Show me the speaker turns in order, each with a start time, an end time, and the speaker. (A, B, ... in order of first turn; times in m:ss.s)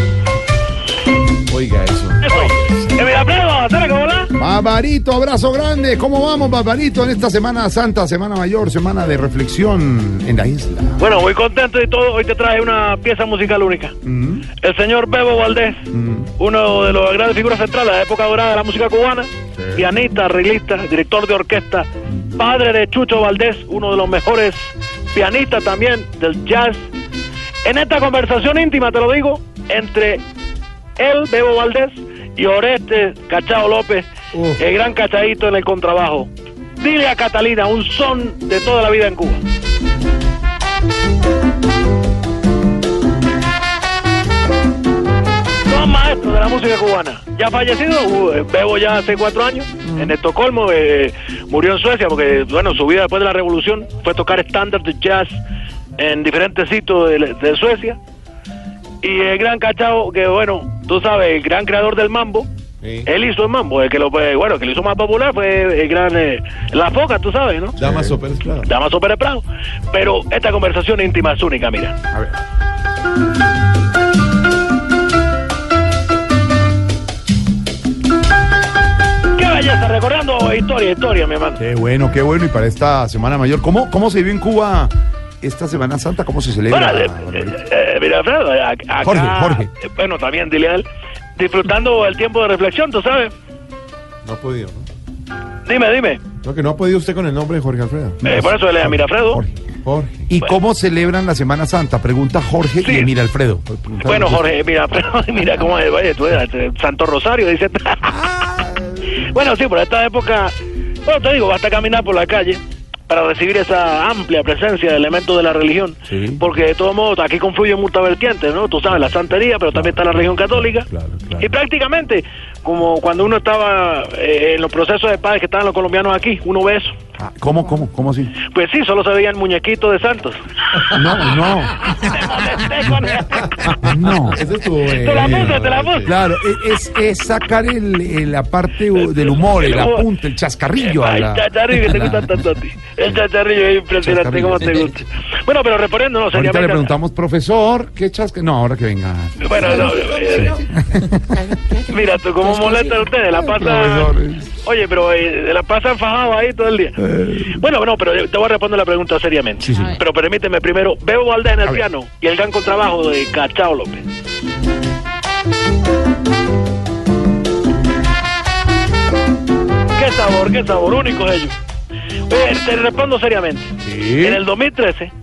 0:01.5-0:02.6 A
0:02.2-0:04.3 B
0:04.4-0:11.0 C
0:11.0-0:14.0 B
0:14.0-0:14.5 C
0:14.5-0:26.9 B
0:15.9-0:16.3 C
0:27.6-0:30.2 B
0:31.0-0:39.4 B
0:34.3-0:34.6 A
0:45.6-0:55.4 B
0:56.0-0:58.0 B
0:59.0-1:02.5 B
1:02.8-1:03.1 A
1:03.0-1:07.8 B
1:07.8-1:08.7 A
1:07.8-1:08.2 C
1:08.6-1:12.0 B
1:12.1-1:12.4 C
1:19.3-1:21.6 B
1:21.6-1:27.6 C
1:26.7-1:33.3 B
1:29.0-1:29.7 C
1:34.2-1:34.9 A
1:35.6-1:36.2 B
1:36.4-1:38.2 A
1:38.2-1:39.6 C
1:38.2-1:39.4 B
1:39.8-1:40.3 A
1:40.3-1:44.4 C
1:42.8-1:43.1 B
1:44.0-1:48.2 B
1:48.1-1:49.2 C
1:49.1-1:50.5 B
1:51.0-2:00.9 B
1:56.1-1:56.4 C
1:59.7-2:01.5 C
2:01.4-2:06.9 B
2:07.2-2:08.4 C
2:08.5-2:10.4 B
2:10.9-2:11.9 C
2:11.9-2:13.7 B
2:13.7-2:14.4 C
2:14.2-2:16.2 A
2:14.9-2:16.0 B
2:15.3-2:15.5 C
2:16.0-2:22.4 C
2:19.0-2:20.1 B
2:20.8-2:26.9 B
2:24.0-2:24.9 C
2:26.3-2:31.4 C
2:29.4-2:30.6 B
2:31.9-2:44.0 B
2:33.3-2:34.6 C
2:37.0-2:37.6 C
2:39.6-2:40.0 C
2:49.9-2:51.6 B
2:52.3-2:55.1 B
2:53.8-2:54.4 C